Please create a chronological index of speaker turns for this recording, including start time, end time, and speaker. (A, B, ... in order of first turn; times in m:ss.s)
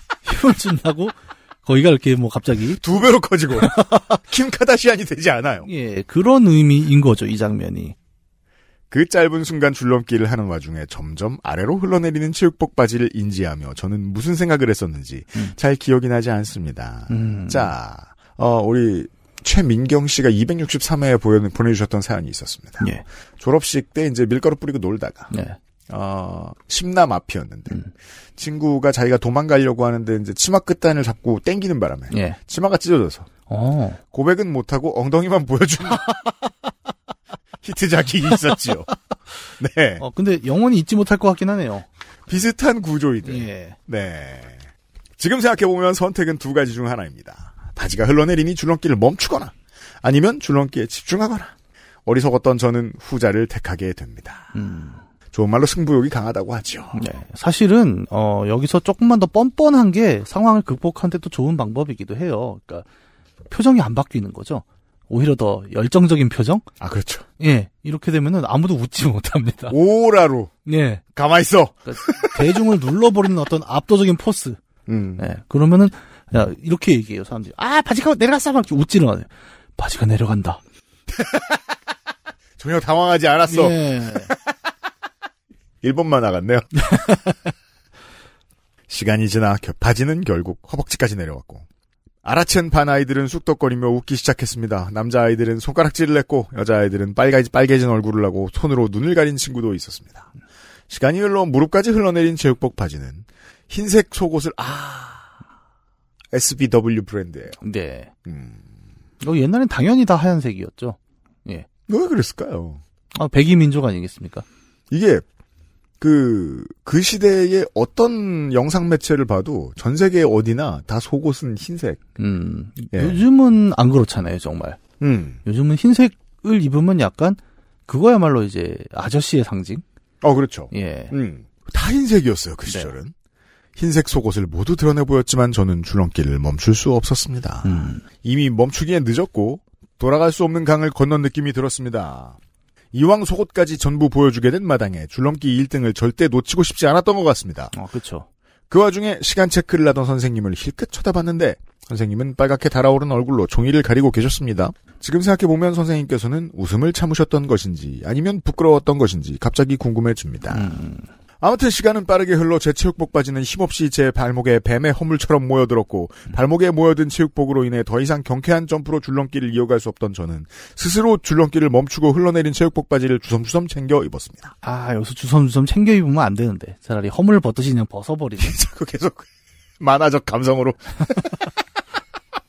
0:00.2-0:02.8 A
0:02.8-0:05.7 B
0:03.6-0:04.0 A
0:05.6-0:07.9 A
0:08.9-0:25.3 B
0:17.1-0:17.7 A
0:25.3-0:25.6 A
0:25.9-0:27.8 B
0:28.4-0:33.3 B
0:32.1-0:32.4 A
0:33.5-0:34.0 A
0:34.1-0:36.1 B
0:37.6-0:38.9 B
0:39.6-0:40.0 B
0:40.0-0:41.8 A
0:42.3-0:44.7 B
0:43.2-0:43.8 A
0:45.2-0:51.5 B
0:52.0-0:54.5 B
0:54.5-0:55.0 A
0:55.3-0:57.0 B
0:56.9-1:02.8 A
1:03.5-1:06.6 A
1:06.8-1:07.2 B
1:07.4-1:09.7 A
1:09.7-1:10.5 B
1:10.6-1:11.0 A
1:11.1-1:12.4 B
1:11.8-1:14.6 A
1:14.9-1:15.2 B
1:15.2-1:20.6 A
1:21.1-1:21.6 B
1:22.6-1:24.4 B
1:23.5-1:24.3 A
1:25.8-1:27.1 B
1:28.9-1:31.6 B
1:32.2-1:40.3 B
1:40.9-1:45.3 B
1:46.3-1:47.6 B
1:47.6-1:48.1 A
1:48.2-1:48.6 B
1:49.2-1:51.7 A
1:51.9-1:52.8 B
1:53.1-1:54.4 A
1:54.9-1:55.2 B
1:56.0-2:02.0 B
2:02.2-2:04.8 A
2:02.9-2:03.2 B
2:05.0-2:05.4 B
2:05.4-2:09.8 A
2:10.2-2:13.1 B
2:10.7-2:11.1 A
2:12.7-2:12.9 A
2:13.8-2:22.4 B
2:17.6-2:18.0 A
2:22.9-2:27.7 B
2:27.7-2:28.3 A
2:28.7-2:40.7 B
2:40.5-2:41.1 A
2:41.4-2:54.5 B
2:54.6-2:58.6 A
2:58.4-2:59.3 B
2:59.8-3:01.5 B